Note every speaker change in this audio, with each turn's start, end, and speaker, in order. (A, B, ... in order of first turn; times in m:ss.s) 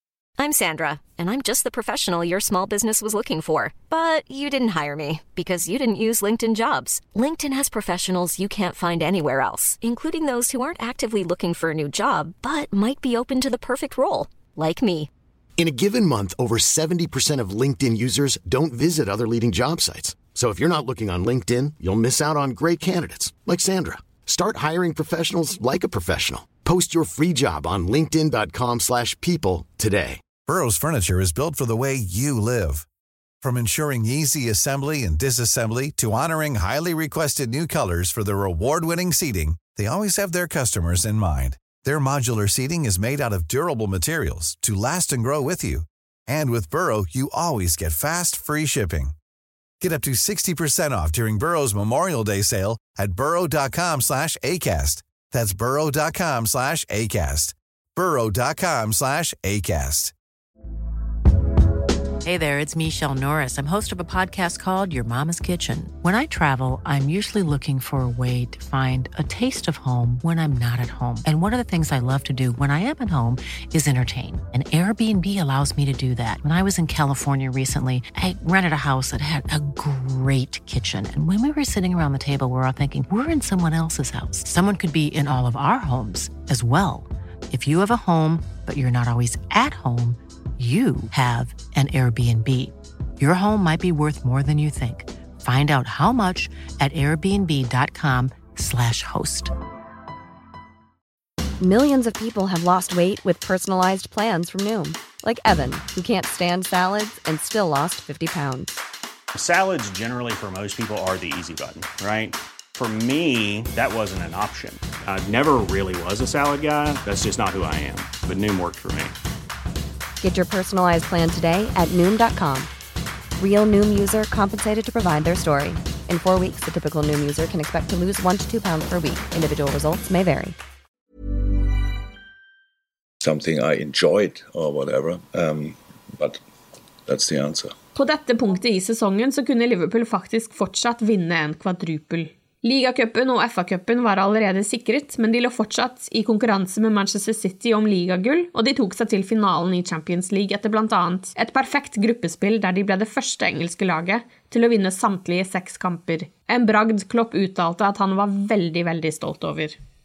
0:00.4-0:15.1 A
0:15.6-0:30.2 B
0:30.4-0:32.8 C
0:33.4-0:49.1 C
0:49.8-1:00.1 C
1:02.2-1:39.5 D
1:41.6-1:48.8 E
1:49.3-1:59.2 F
2:00.2-2:02.7 E
2:03.4-2:10.6 E
2:13.2-2:16.4 G
2:17.0-2:17.7 G
2:17.9-2:39.8 H